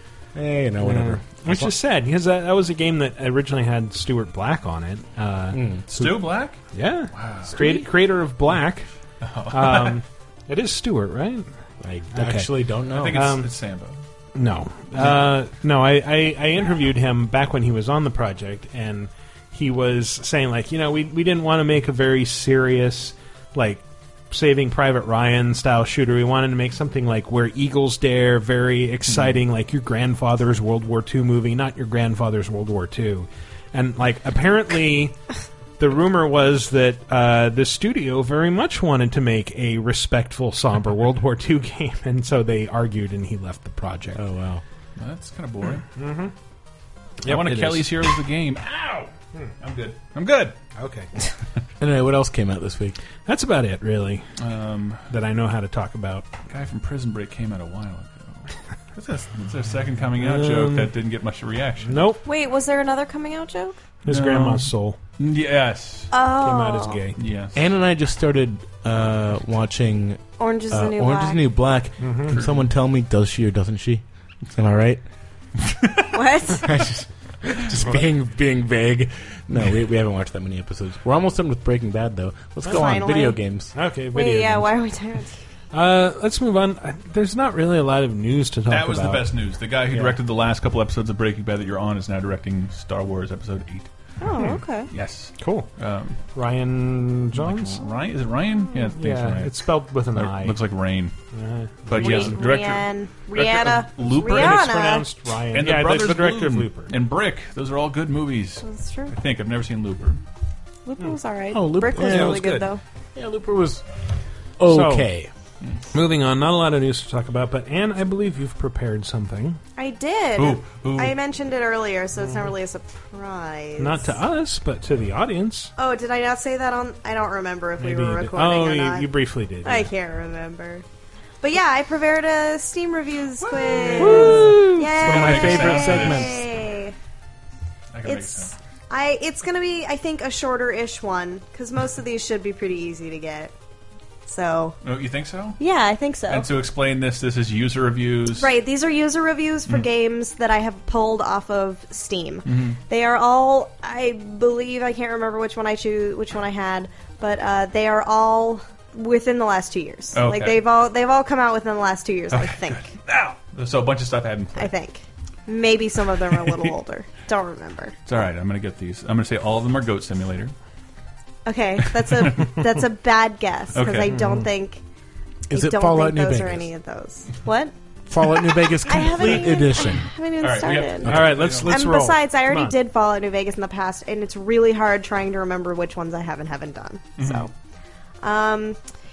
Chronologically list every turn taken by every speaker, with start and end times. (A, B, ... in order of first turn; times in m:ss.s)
0:00.3-0:01.7 A
0:00.8-0:08.9 B
0:05.5-0:05.9 A
0:05.9-0:06.6 C
0:07.1-0:07.6 C
0:09.2-0:10.0 C
0:09.5-0:11.5 B
0:11.8-0:13.3 A
0:12.1-0:12.5 B
0:12.9-0:14.0 C
0:13.1-0:13.5 B
0:14.3-0:35.2 B
0:35.8-0:44.2 B
0:44.1-0:44.6 A
0:45.0-0:45.8 C
0:46.0-0:46.3 B
0:47.2-0:48.2 B
0:47.2-0:49.1 C
0:49.6-0:50.6 C
0:50.7-0:51.1 B
0:51.8-0:53.0 A
0:53.2-0:54.3 B
0:54.4-0:55.1 C
0:55.1-0:56.3 B
0:56.5-1:02.1 C
1:00.2-1:00.9 B
1:01.8-1:02.2 B
1:02.2-1:03.8 D
1:04.0-1:05.0 B
1:04.1-1:06.1 C
1:06.1-1:07.0 D
1:06.4-1:07.2 B
1:07.2-1:07.6 C
1:07.5-1:15.0 A
1:10.4-1:11.4 D
1:12.0-1:12.4 B
1:16.1-1:16.7 D
1:16.6-1:23.7 A
1:22.7-1:23.4 D
1:23.7-1:24.7 B
1:24.1-1:25.4 D
1:25.7-1:29.3 B
1:28.7-1:33.9 C
1:29.9-1:30.2 B
1:34.2-1:34.9 D
1:34.9-1:36.2 C
1:35.4-1:35.7 B
1:36.3-1:37.8 B
1:37.3-1:41.1 C
1:39.0-1:40.6 B
1:41.3-1:42.4 B
1:41.9-1:44.7 C
1:42.0-1:45.0 D
1:44.1-1:46.9 B
1:45.5-1:50.2 C
1:48.6-1:49.1 D
1:50.8-1:52.8 D
1:51.5-1:52.5 A
1:52.0-1:52.7 B
1:53.1-1:53.8 A
1:54.6-1:55.3 A
1:54.7-1:55.1 B
1:55.9-1:59.6 B
1:59.8-2:04.0 D
2:00.4-2:01.2 C
2:03.8-2:05.7 B
2:05.8-2:09.1 D
2:07.8-2:09.9 B
2:09.6-2:10.8 D
2:11.4-2:16.9 D
2:13.7-2:16.4 C
2:14.0-2:14.9 B
2:14.2-2:16.4 A
2:17.9-2:18.5 C
2:18.0-2:23.5 D
2:24.2-2:24.8 D
2:24.8-2:25.6 C
2:25.6-2:26.5 D
2:26.3-2:28.5 C
2:28.3-2:42.9 D
2:32.4-2:32.8 C
2:40.1-2:40.6 C
2:42.3-2:44.7 C
2:44.6-2:48.0 D
2:48.1-2:50.5 C
2:51.4-2:54.8 D
2:52.0-2:52.6 C
2:53.7-2:54.3 C
2:54.1-2:54.5 B
2:55.5-2:56.7 A
2:55.5-2:57.7 D
2:58.1-3:00.1 A
2:58.8-3:07.5 D
3:00.4-3:01.8 C
3:01.0-3:02.7 B
3:07.2-3:07.5 C
3:08.2-3:08.8 D